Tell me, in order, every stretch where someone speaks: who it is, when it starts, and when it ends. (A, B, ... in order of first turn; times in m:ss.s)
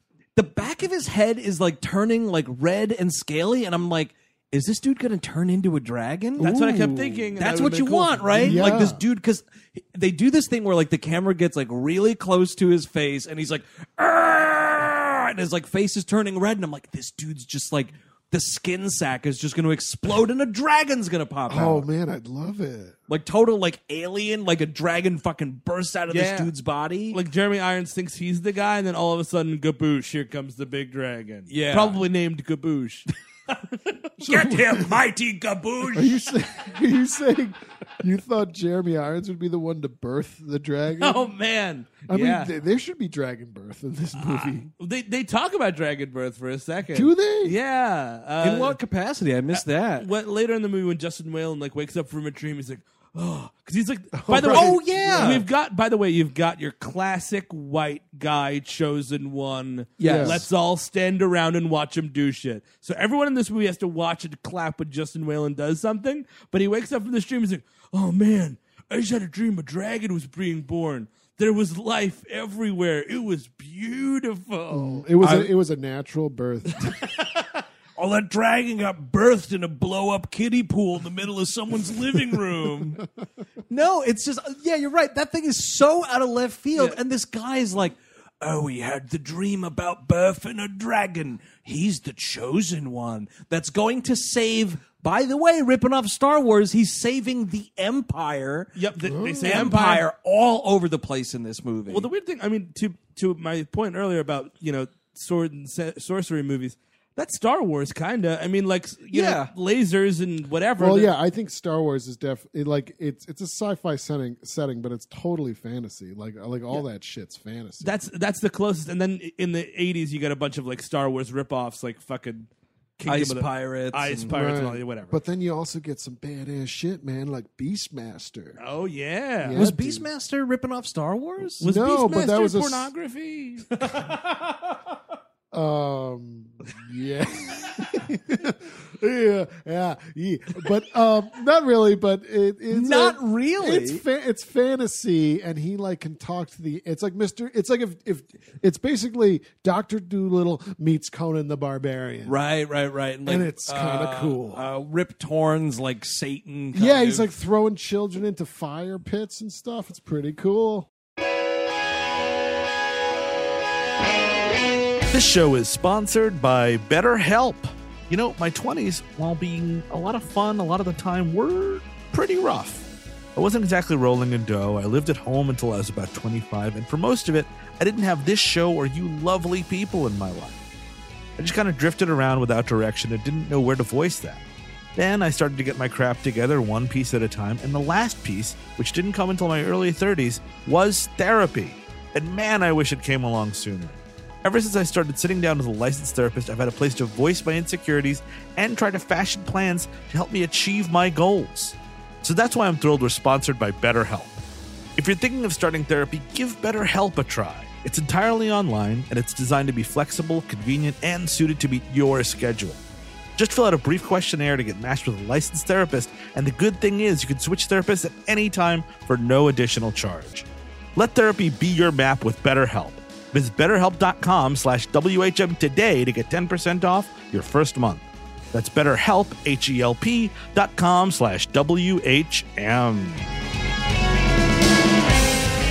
0:00.4-0:06.5 A
0:06.4-0:07.3 B
0:06.4-0:08.8 C
0:07.4-0:21.9 A
0:08.4-0:09.0 B
0:21.5-0:23.0 B
0:23.1-0:27.2 A
0:26.1-0:26.5 C
0:27.1-0:36.2 C
0:31.5-0:32.0 A
0:34.2-0:35.0 B
0:35.5-0:35.9 A
0:35.9-0:41.3 B
0:41.0-0:42.5 C
0:42.1-0:44.7 B
0:44.2-0:48.8 C
0:46.9-0:47.6 B
0:48.4-0:50.1 A
0:49.5-1:15.1 C
0:54.1-0:55.4 B
0:54.3-0:55.5 A
1:00.0-1:00.5 A
1:00.0-1:00.5 B
1:14.7-1:17.0 B
1:15.2-1:15.5 A
1:16.8-1:17.4 C
1:18.0-1:23.0 A
1:23.7-1:38.7 A
1:38.8-1:40.0 C
1:39.0-1:39.8 B
1:39.4-1:42.1 A
1:41.9-1:51.1 C
1:49.1-1:49.5 A
1:50.8-1:57.9 B
1:57.8-2:05.2 C
2:03.1-2:04.3 A
2:04.3-2:08.6 B
2:08.6-2:09.6 C
2:09.4-2:10.1 B
2:09.5-2:11.7 A
2:11.6-2:12.9 B
2:11.6-2:14.2 C
2:15.5-2:32.4 B
2:22.7-2:24.0 A
2:32.3-2:37.3 A
2:33.3-2:34.6 B
2:36.7-2:40.9 B
2:45.1-3:00.6 D
3:01.4-3:04.4 D
3:05.0-3:24.4 D
3:25.0-3:32.8 D
3:33.4-3:53.2 D